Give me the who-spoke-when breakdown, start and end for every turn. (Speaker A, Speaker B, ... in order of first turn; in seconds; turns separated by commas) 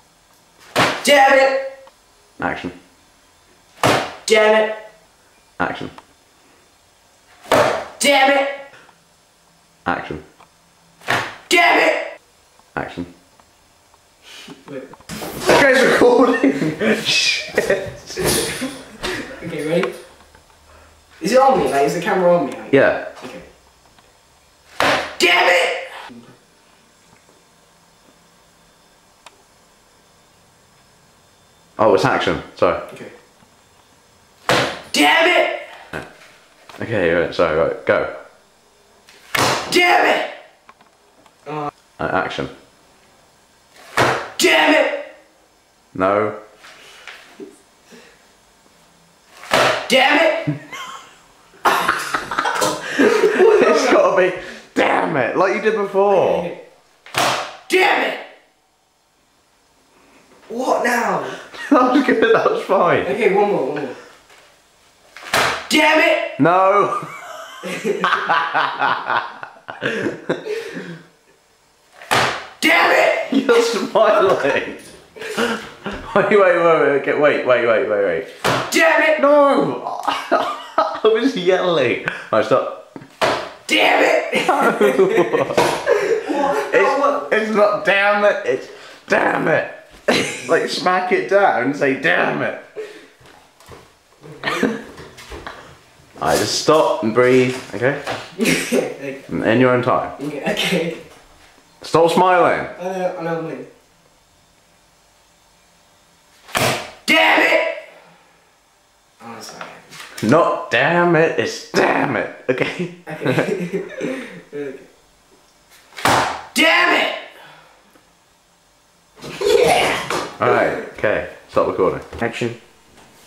Speaker A: 1.0-1.6, Speaker B: 2.4-2.7, Speaker A: 4.3-4.8, Speaker B: 5.6-5.9, Speaker A: 8.0-8.6, Speaker B: 9.8-10.2, Speaker A: 11.5-12.1, Speaker B: 12.7-13.1, Speaker B: 15.3-18.3, Speaker A: 19.1-19.9, Speaker A: 21.2-23.4, Speaker B: 22.7-23.1, Speaker A: 25.2-25.9, Speaker B: 31.8-32.8, Speaker A: 34.9-35.6, Speaker B: 36.8-38.1, Speaker A: 39.7-40.3, Speaker B: 42.0-42.5, Speaker A: 44.4-45.0, Speaker B: 45.9-46.4, Speaker A: 49.9-50.5, Speaker B: 52.9-56.5, Speaker A: 53.0-54.0, Speaker A: 56.1-56.5, Speaker A: 57.7-58.2, Speaker A: 60.5-61.4, Speaker B: 61.5-63.1, Speaker A: 63.0-64.0, Speaker A: 65.7-66.3, Speaker B: 66.4-67.2, Speaker A: 67.6-68.3, Speaker B: 68.1-69.2, Speaker B: 69.8-70.4, Speaker A: 72.6-73.5, Speaker B: 73.3-78.3, Speaker A: 78.7-79.2, Speaker B: 79.2-82.9, Speaker A: 83.7-87.2, Speaker B: 84.3-92.6, Speaker A: 94.4-94.7, Speaker B: 96.2-98.0, Speaker A: 98.4-99.3, Speaker B: 99.3-100.1, Speaker A: 100.2-101.0, Speaker B: 101.8-102.7, Speaker A: 102.8-103.7, Speaker A: 107.0-107.8, Speaker A: 109.2-109.9, Speaker B: 110.2-113.5, Speaker A: 113.0-114.9, Speaker A: 116.5-117.2, Speaker A: 119.4-120.0, Speaker B: 120.4-122.1